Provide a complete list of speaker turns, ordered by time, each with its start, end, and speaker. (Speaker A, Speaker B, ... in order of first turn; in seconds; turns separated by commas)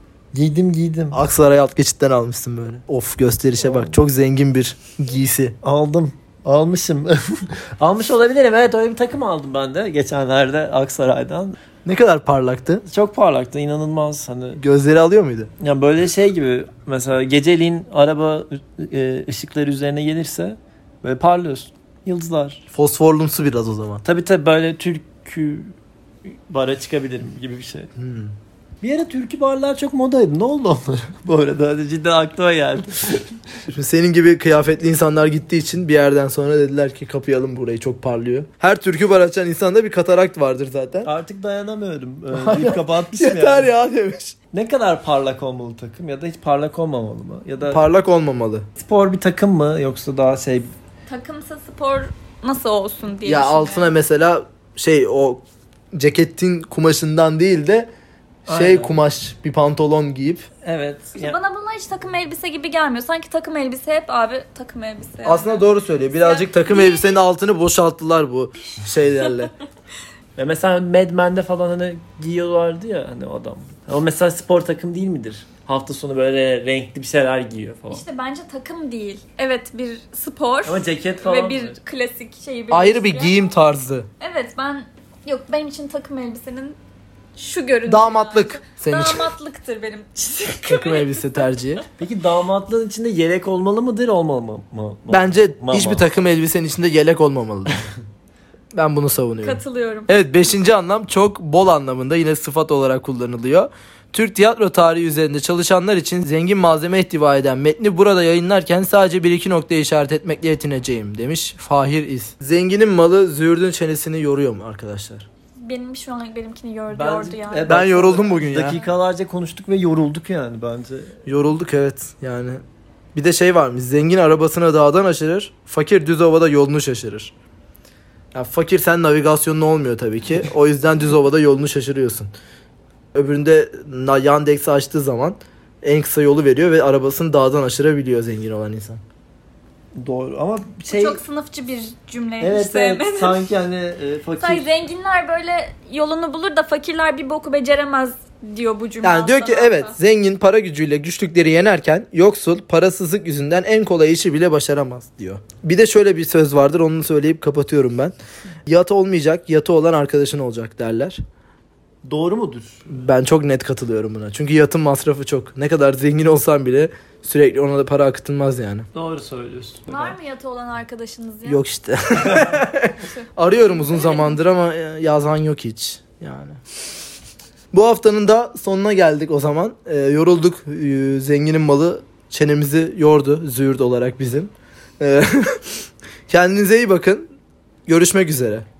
Speaker A: 0.3-1.2, Speaker B: 1.1-5.5, Speaker A: 3.6-4.0, Speaker A: 5.6-11.6, Speaker B: 11.8-12.8, Speaker A: 12.8-14.6, Speaker B: 14.6-15.5, Speaker A: 15.6-22.6, Speaker B: 22.7-24.0, Speaker A: 24.0-25.7, Speaker A: 26.3-27.9, Speaker B: 28.0-28.3, Speaker A: 28.8-33.3, Speaker B: 33.7-41.1, Speaker A: 41.0-43.7, Speaker B: 42.3-44.4, Speaker A: 44.5-47.8, Speaker B: 47.6-48.6, Speaker A: 48.8-50.7, Speaker C: 51.1-54.0, Speaker B: 53.2-55.4, Speaker B: 55.9-57.9, Speaker B: 58.5-60.5, Speaker A: 58.5-59.0, Speaker A: 60.6-61.4, Speaker C: 61.1-67.2, Speaker B: 65.2-69.5, Speaker C: 69.2-69.5, Speaker A: 70.4-78.0, Speaker C: 77.9-83.5, Speaker A: 80.7-81.7, Speaker B: 82.7-84.1, Speaker C: 84.2-86.8, Speaker C: 87.3-91.3, Speaker B: 87.9-89.3, Speaker B: 90.6-91.8, Speaker A: 92.0-96.1, Speaker B: 95.1-97.8, Speaker B: 98.7-115.3, Speaker C: 99.4-100.1, Speaker C: 115.6-117.8, Speaker A: 116.9-121.1, Speaker B: 117.7-118.8, Speaker B: 121.2-122.6, Speaker B: 123.1-127.3, Speaker B: 128.3-132.3, Speaker B: 133.1-139.0, Speaker A: 139.9-141.2, Speaker C: 140.9-143.3, Speaker A: 142.4-144.7, Speaker C: 144.4-149.9, Speaker B: 149.0-158.1, Speaker B: 158.7-161.2, Speaker A: 162.1-162.8, Speaker B: 162.9-168.9, Speaker A: 168.9-170.1, Speaker C: 169.9-171.6, Speaker B: 171.4-176.6, Speaker A: 172.2-172.5, Speaker C: 172.8-174.3, Speaker B: 177.7-185.8, Speaker B: 186.3-187.3, Speaker B: 187.9-188.6